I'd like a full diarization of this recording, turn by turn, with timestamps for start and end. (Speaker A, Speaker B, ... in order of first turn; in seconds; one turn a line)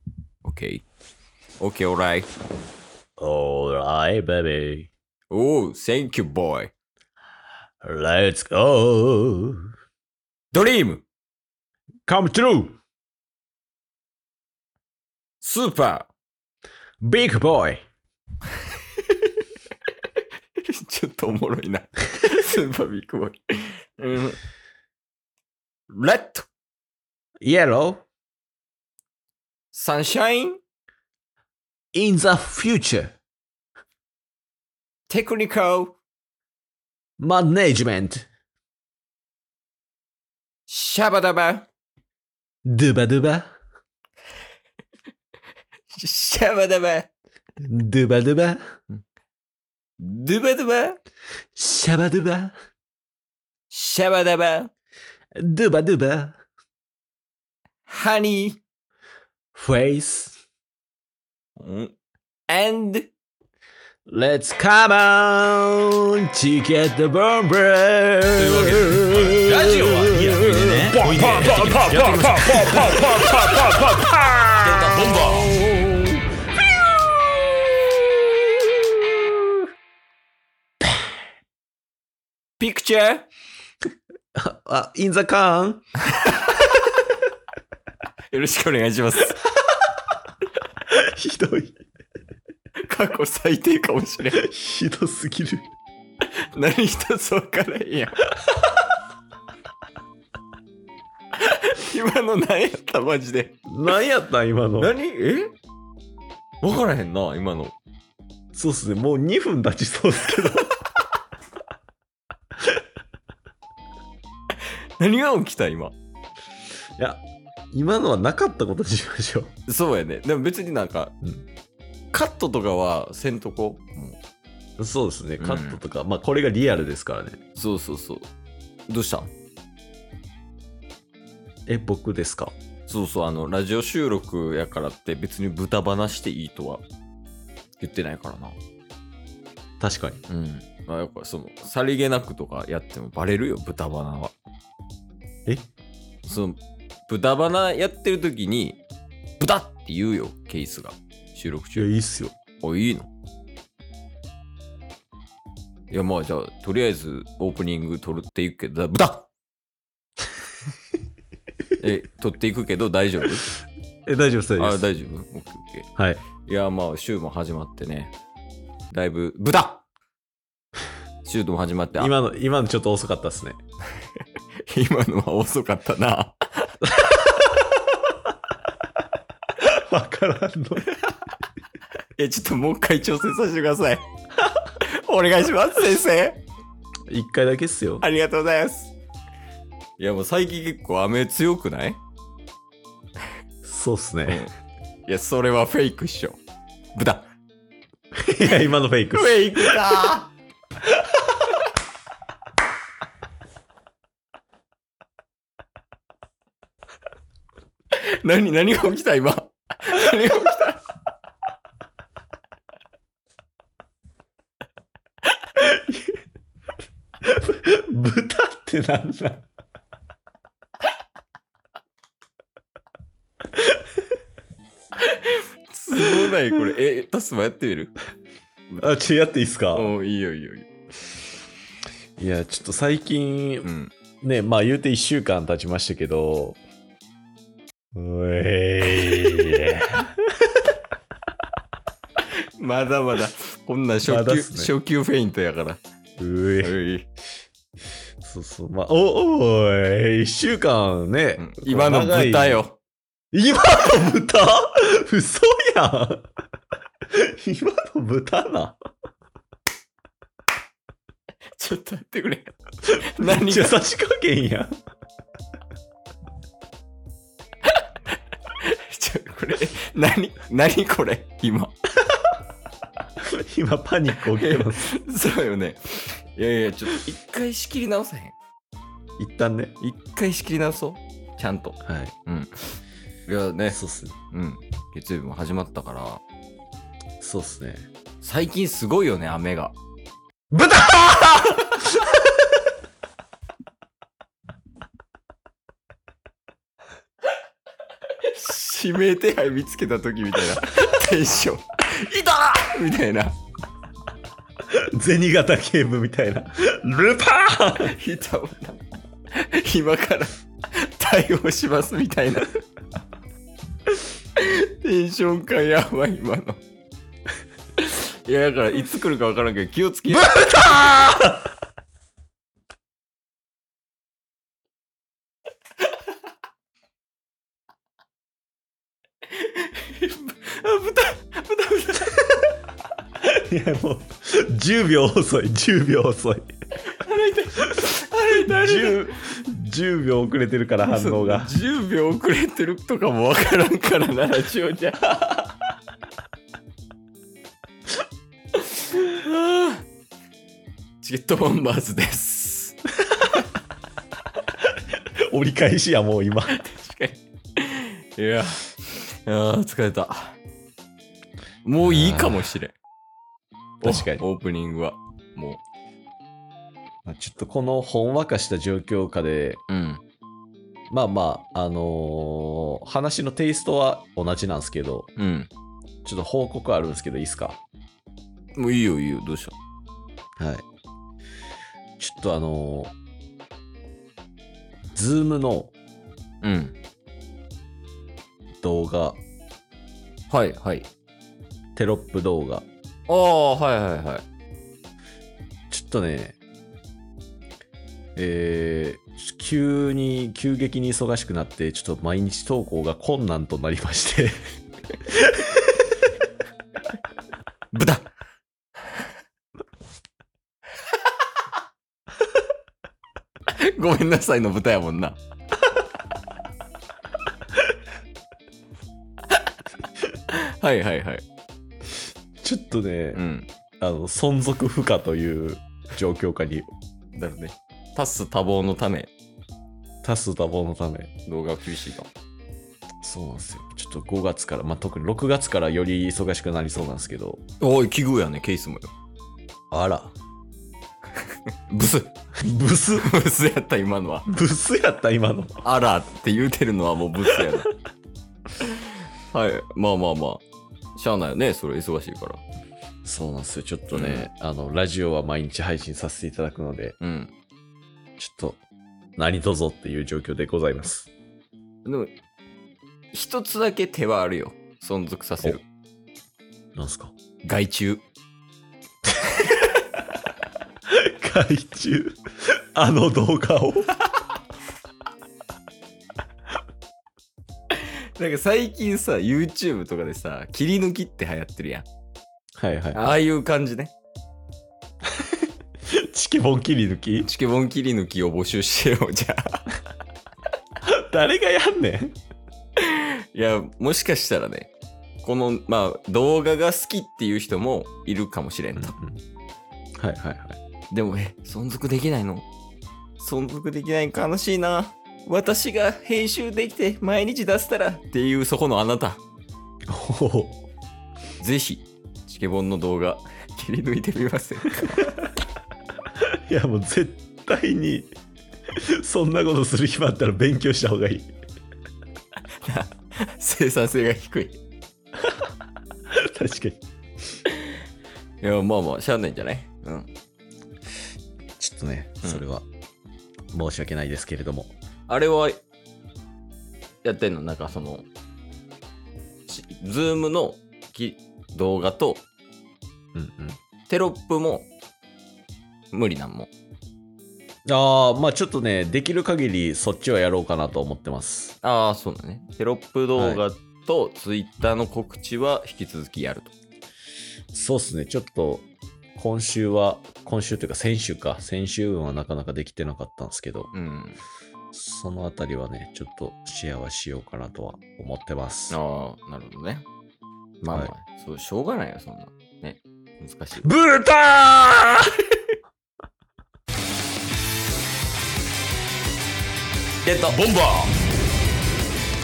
Speaker A: 0.4-0.8
Speaker A: 1.6-2.3
Speaker B: 3.2-4.9
Speaker A: 5.3-6.7
Speaker B: 7.8-9.7
Speaker A: 10.5-11.0
Speaker B: 12.1-12.8
Speaker A: 15.4-16.1
Speaker B: 17.0-17.8
Speaker A: 18.6-24.4
Speaker A: 25.9-26.5
Speaker B: 27.4-28.0
Speaker A: 29.7-30.6
Speaker B: 31.9-33.1
Speaker A: 35.1-36.0
Speaker B: 37.2-38.3
Speaker A: 40.7-41.6
Speaker B: 42.6-43.5
Speaker A: 45.9-47.1
Speaker B: 47.6-48.6
Speaker A: 50.0-51.0
Speaker B: 51.5-52.5
Speaker A: 53.7-54.7
Speaker B: 55.3-56.4
Speaker A: 57.9-58.6
Speaker B: 59.5-60.4
Speaker A: 61.6-61.9
Speaker A: 62.5-63.1
Speaker B: 64.1-76.2
Speaker A: 68.5-68.8
Speaker C: 68.5-75.5
Speaker A: 74.6-75.5
Speaker B: 77.0-79.6
Speaker A: 82.6-83.3
Speaker B: 84.3-85.8
Speaker A: 86.1-86.7
Speaker A: 88.3-89.4
Speaker B: 90.9-91.8
Speaker A: 92.8-94.5
Speaker B: 94.3-95.7
Speaker A: 96.2-98.3
Speaker A: 101.3-103.6
Speaker B: 103.7-104.9
Speaker A: 104.8-105.5
Speaker A: 106.6-107.7
Speaker B: 108.5-110.8
Speaker A: 115.0-115.9
Speaker B: 117.0-119.5
Speaker A: 119.7-121.1
Speaker A: 122.1-124.2
Speaker B: 124.8-127.4
Speaker A: 125.4-125.8
Speaker A: 127.5-128.3
Speaker A: 128.9-129.3
Speaker B: 131.7-132.5
Speaker A: 132.9-136.8
Speaker A: 137.8-138.6
Speaker B: 139.8-140.2
Speaker A: 140.3-144.3
Speaker A: 146.2-148.8
Speaker A: 149.4-151.9
Speaker B: 151.7-152.3
Speaker A: 152.6-153.1
Speaker A: 155.9-159.3
Speaker A: 161.8-163.5
Speaker B: 164.1-164.9
Speaker A: 164.6-165.9
Speaker B: 165.9-166.2
Speaker A: 166.4-168.1
Speaker A: 168.9-169.8
Speaker A: 171.2-172.1
Speaker B: 172.0-173.6
Speaker A: 174.7-176.9
Speaker B: 177.0-177.9
Speaker B: 179.6-181.0
Speaker A: 182.2-184.0
Speaker A: 184.7-186.4
Speaker B: 187.1-188.0
Speaker A: 188.0-188.9
Speaker A: 190.0-192.0
Speaker B: 193.6-194.4
Speaker A: 195.1-196.4
Speaker A: 196.9-197.3
Speaker B: 198.2-200.1
Speaker A: 199.1-200.3
Speaker B: 200.9-201.4
Speaker A: 207.9-210.8
Speaker B: 215.6-216.2
Speaker B: 217.2-219.4
Speaker A: 225.0-227.9
Speaker B: 228.8-229.9
Speaker A: 229.7-230.7
Speaker B: 232.2-233.7
Speaker A: 233.6-233.9
Speaker B: 234.2-236.6
Speaker B: 237.9-240.2
Speaker A: 242.6-245.8
Speaker B: 244.0-244.7
Speaker B: 246.2-246.7
Speaker A: 246.6-247.1
Speaker B: 248.2-252.6
Speaker A: 251.4-252.8
Speaker B: 253.3-256.2
Speaker B: 257.1-258.8
Speaker A: 261.6-263.8
Speaker B: 262.9-264.7
Speaker A: 268.5-271.7
Speaker B: 273.2-274.8
Speaker A: 274.3-278.3
Speaker B: 279.2-279.7
Speaker A: 279.8-282.6
Speaker B: 281.8-282.1
Speaker A: 283.3-283.8
Speaker B: 283.7-284.1
Speaker A: 284.3-286.2
Speaker B: 287.2-287.8
Speaker A: 288.2-289.7
Speaker B: 290.5-292.1
Speaker A: 298.1-303.3
Speaker B: 304.7-307.9
Speaker A: 307.8-312.6
Speaker A: 314.3-316.6
Speaker A: 317.8-321.3
Speaker B: 320.2-321.2
Speaker A: 329.3-332.5
Speaker B: 333.2-336.5
Speaker A: 336.8-339.1
Speaker B: 338.4-341.5
Speaker A: 340.8-345.3
Speaker A: 348.7-349.8
Speaker A: 351.0-352.8
Speaker B: 353.1-353.4
Speaker B: 354.9-356.6
Speaker A: 356.5-360.4
Speaker A: 361.6-362.8
Speaker B: 361.8-362.5
Speaker B: 363.8-364.2
Speaker A: 363.8-365.6
Speaker B: 367.0-369.6
Speaker A: 369.7-370.0
Speaker B: 370.9-375.1
Speaker A: 375.2-375.5
Speaker B: 376.0-377.6
Speaker A: 378.6-379.5
Speaker B: 380.4-380.6
Speaker B: 382.0-382.9
Speaker B: 384.9-385.7
Speaker A: 386.4-386.7
Speaker B: 388.6-389.2
Speaker A: 390.3-390.9
Speaker B: 391.8-392.7
Speaker A: 393.1-394.2
Speaker B: 395.7-396.4
Speaker B: 398.1-404.4
Speaker B: 405.0-405.9
Speaker A: 407.7-408.1
Speaker A: 413.5-415.2
Speaker A: 420.3-421.2
Speaker B: 422.4-423.2
Speaker A: 423.1-423.5
Speaker B: 423.8-426.7
Speaker A: 427.1-429.1
Speaker B: 430.0-431.1
Speaker A: 431.2-432.1
Speaker B: 433.0-437.4
Speaker A: 437.6-438.9
Speaker B: 439.7-440.1
Speaker A: 441.2-442.1
Speaker B: 442.4-443.1
Speaker A: 443.0-444.3
Speaker B: 444.3-445.5
Speaker A: 445.6-447.7
Speaker A: 448.6-450.4
Speaker A: 450.9-452.4
Speaker B: 453.0-456.9
Speaker A: 453.9-454.3
Speaker A: 457.0-457.3
Speaker B: 458.2-458.6
Speaker B: 459.2-461.1
Speaker A: 461.8-462.1
Speaker A: 463.1-465.6
Speaker B: 466.8-467.1
Speaker A: 467.4-468.0
Speaker B: 470.9-473.9
Speaker A: 477.7-481.9
Speaker B: 482.6-483.0
Speaker A: 482.9-483.9
Speaker B: 485.9-487.3
Speaker A: 487.2-489.7
Speaker B: 490.8-492.1
Speaker A: 492.8-494.7
Speaker A: 495.2-498.9
Speaker B: 498.8-499.2
Speaker B: 500.0-500.6
Speaker A: 500.9-502.5
Speaker A: 503.2-509.2
Speaker B: 509.9-510.6
Speaker A: 511.4-515.2
Speaker B: 516.5-518.1
Speaker B: 518.7-521.3
Speaker A: 522.6-524.6
Speaker B: 526.1-526.8
Speaker A: 528.4-530.1
Speaker B: 531.6-532.7
Speaker B: 533.5-534.7
Speaker A: 535.1-535.6
Speaker A: 537.0-538.1
Speaker A: 539.5-542.2
Speaker B: 543.1-543.6
Speaker A: 543.9-544.7
Speaker A: 545.9-546.5
Speaker B: 547.7-551.5
Speaker A: 551.6-556.5
Speaker B: 553.1-553.4
Speaker B: 557.5-563.7
Speaker A: 563.7-564.2
Speaker B: 564.7-568.8
Speaker A: 568.7-569.8
Speaker A: 570.6-573.7
Speaker B: 573.6-575.2
Speaker A: 580.0-580.4
Speaker C: 580.5-580.8